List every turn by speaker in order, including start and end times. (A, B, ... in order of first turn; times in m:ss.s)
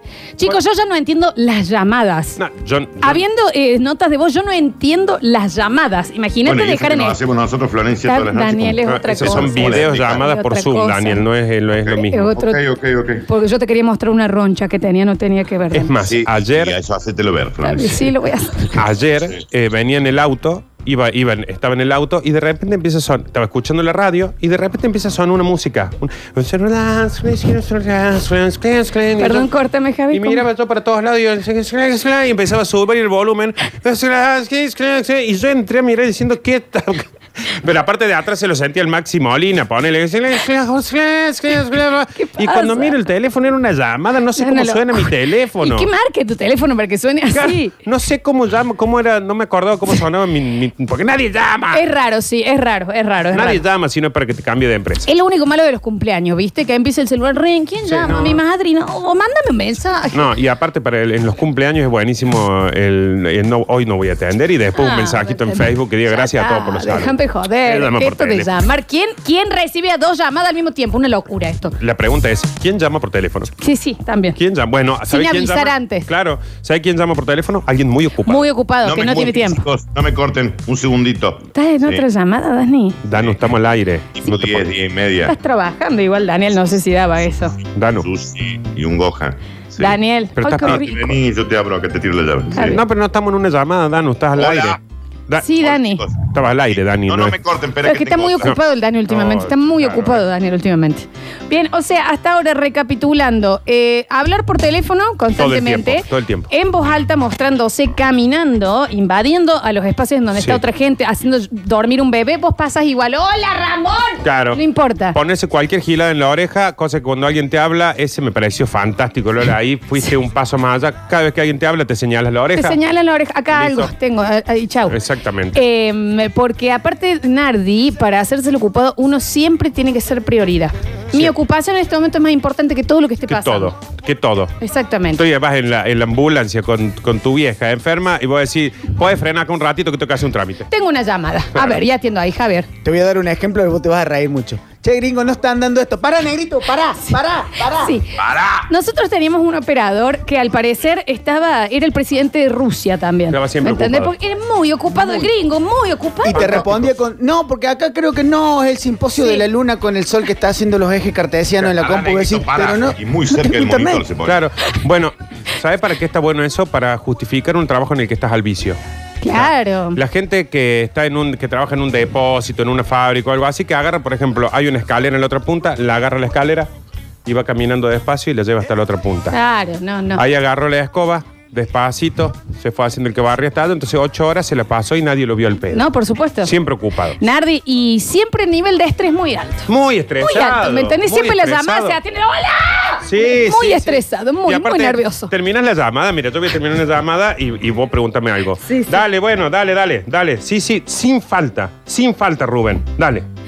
0:00.4-0:02.4 A
0:02.4-0:03.2 B
0:03.0-0:07.2 A
0:06.4-0:10.2 C
0:08.0-0:11.2 A
0:08.8-0:12.3 B
0:11.8-0:13.2 C
0:12.0-0:12.6 A
0:13.2-0:15.9 A
0:15.7-0:16.8 B
0:16.0-0:18.1 C
0:17.6-0:18.8 A
0:18.8-0:29.5 B
0:29.2-0:30.4 A
0:30.1-0:45.9 B
0:42.2-0:42.9 A
0:44.4-0:47.7 A
0:47.3-0:51.8 B
0:51.7-0:53.6 A
0:53.3-0:55.1 B
0:55.0-1:00.2 A
0:57.9-0:58.4 B
1:00.1-1:08.5 B
1:04.8-1:11.8 A
1:11.8-1:13.5 B
1:13.6-1:14.4 A
1:14.4-1:18.4 B
1:15.1-1:16.1 A
1:18.2-1:19.6 A
1:18.8-1:22.0 C
1:21.5-1:23.0 A
1:23.0-1:24.7 B
1:24.2-1:25.3 C
1:25.2-1:27.5 A
1:27.8-1:28.0 B
1:28.0-1:30.0 C
1:29.8-1:31.2 A
1:30.4-1:30.8 B
1:30.6-1:32.8 C
1:32.5-1:32.8 A
1:32.5-1:35.5 B
1:34.4-1:34.8 C
1:35.4-1:36.0 A
1:35.6-1:38.5 C
1:36.2-1:37.4 B
1:37.8-1:55.2 A
1:39.1-1:40.2 B
1:45.4-1:46.5 B
1:50.4-1:50.6 B
1:54.2-1:54.6 B
1:55.1-2:02.8 B
2:02.5-2:05.0 A
2:03.5-2:03.9 B
2:04.9-2:05.6 B
2:05.5-2:13.7 A
2:13.3-2:14.5 B
2:14.6-2:15.2 A
2:15.1-2:20.7 B
2:20.7-2:22.7 A
2:21.5-2:21.8 B
2:22.8-2:28.0 D
2:27.7-2:28.1 A
2:28.2-2:28.6 C
2:28.7-2:36.6 A
2:33.3-2:34.1 B
2:36.2-2:44.0 D
2:36.3-2:36.9 B
2:39.2-2:39.4 A
2:41.6-2:44.4 C
2:44.2-2:56.7 B
2:49.2-2:50.0 A
2:57.2-2:59.4 B
2:59.3-3:00.2 A
3:00.2-3:05.9 B
3:05.7-3:06.5 A
3:06.4-3:07.2 B
3:07.2-3:09.7 A
3:09.7-3:12.0 B
3:10.2-3:15.3 A
3:13.0-3:23.2 B
3:18.6-3:19.0 A